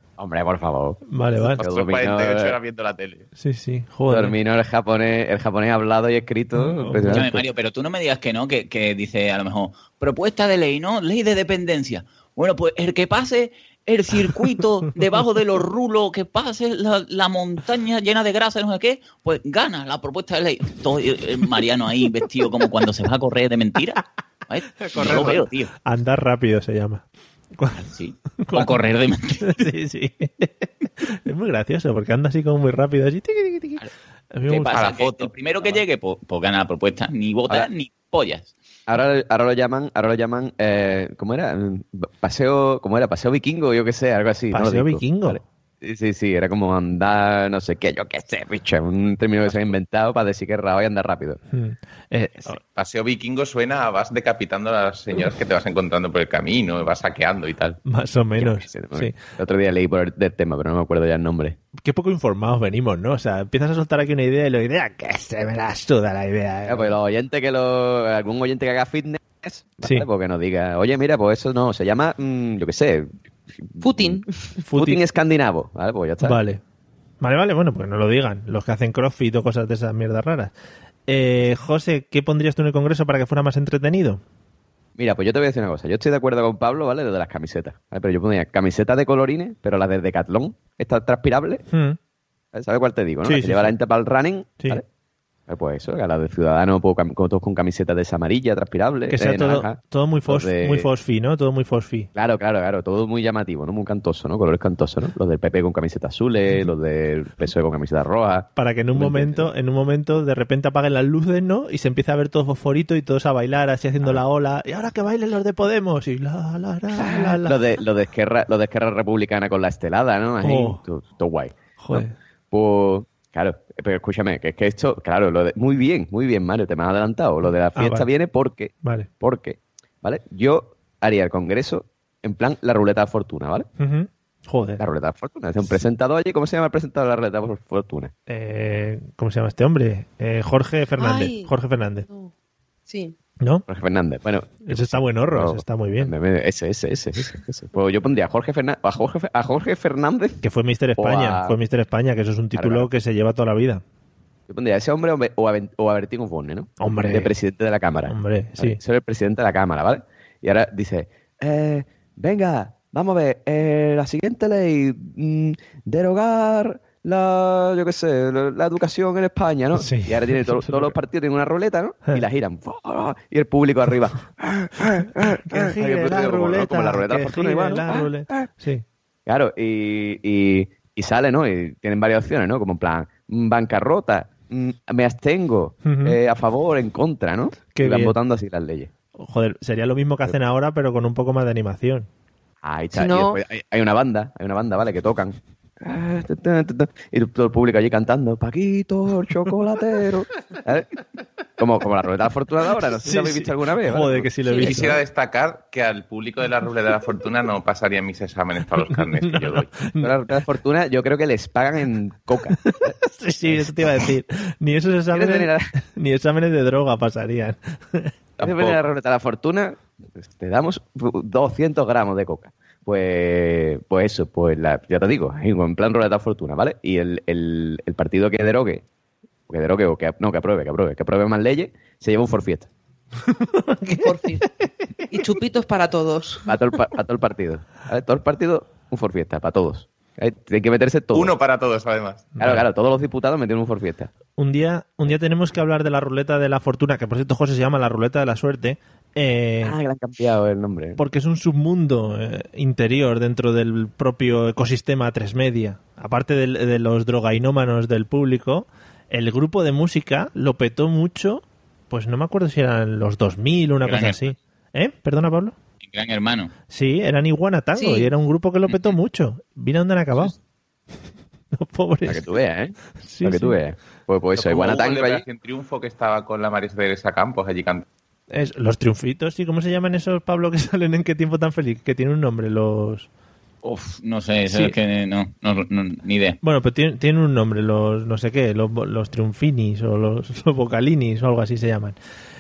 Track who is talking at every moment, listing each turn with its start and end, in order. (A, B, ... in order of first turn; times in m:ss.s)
0:00.2-0:01.0 A
0:01.1-0:01.6 B
0:01.6-0:03.3 C
0:01.6-0:02.6 A
0:03.4-0:04.4 B
0:04.1-0:07.4 A
0:06.5-0:07.3 B
0:07.1-0:25.7 D
0:24.8-0:27.9 B
0:27.7-0:29.6 D
0:28.4-0:28.7 B
0:29.4-0:34.8 B
0:34.5-0:38.5 D
0:34.7-0:35.3 C
0:38.9-0:51.4 A
0:44.5-0:45.4 B
0:51.5-0:52.6 B
0:52.7-0:57.8 C
0:57.8-0:59.2 B
0:58.4-1:01.6 A
1:01.8-1:07.0 B
1:06.7-1:14.2 A
1:13.8-1:14.7 E
1:14.7-1:15.0 B
1:14.7-1:16.4 A
1:16.2-1:16.6 B
1:17.2-1:20.5 B
1:21.1-1:24.2 B
1:25.0-1:31.6 A
1:31.7-1:32.0 B
1:32.5-1:34.8 A
1:33.2-1:33.8 B
1:35.5-1:40.9 A
1:39.1-1:42.1 B
1:42.1-1:49.5 A
1:48.6-1:57.6 B
1:57.0-2:13.7 A
2:00.4-2:00.8 B
2:01.8-2:02.1 B
2:07.8-2:08.1 B
2:08.8-2:09.1 B
2:13.8-2:14.8 B
2:14.8-2:18.1 A
2:18.3-2:22.1 B
2:21.0-2:21.5 E
2:22.0-2:22.3 E
2:22.9-2:23.2 E
2:23.4-2:23.6 B
2:23.7-2:30.4 A
2:24.6-2:26.1 B
2:30.4-2:33.8 B
2:31.0-2:31.6 A
2:32.6-2:32.9 A
2:34.5-2:58.4 A
2:36.8-2:37.3 B
2:38.1-2:38.8 B
2:49.7-2:51.0 B
2:55.2-2:58.8 B
2:59.3-3:08.9 A
3:05.8-3:06.2 B
3:07.7-3:08.2 B
3:09.2-3:12.1 B
3:12.6-3:20.9 A
3:12.9-3:13.4 E
3:21.6-3:24.3 A
3:23.0-3:25.0 B
3:24.6-3:29.7 C
3:28.8-3:30.2 B
3:30.0-3:32.9 A
3:32.6-3:38.8 B
3:33.5-3:33.8 A
3:35.1-3:35.7 A
3:38.4-3:48.8 A
3:49.5-3:52.7 A
3:53.2-3:55.3 B
3:54.0-3:54.5 E
3:55.1-3:56.4 E
3:56.5-4:01.3 A
4:01.1-4:02.3 C
4:02.4-4:02.7 B
4:02.4-4:04.1 A
4:04.4-4:09.8 B
4:09.6-4:11.0 A
4:11.0-4:25.6 B
4:23.8-4:24.3 D
4:25.8-4:26.5 D
4:26.7-4:30.4 B
4:27.8-4:28.1 E
4:31.5-4:32.2 B
4:32.1-4:35.2 A
4:33.0-4:33.6 B
4:34.4-4:37.8 C
4:38.3-4:43.1 B
4:43.6-4:46.4 D
4:44.5-4:44.8 B
4:46.4-4:52.0 B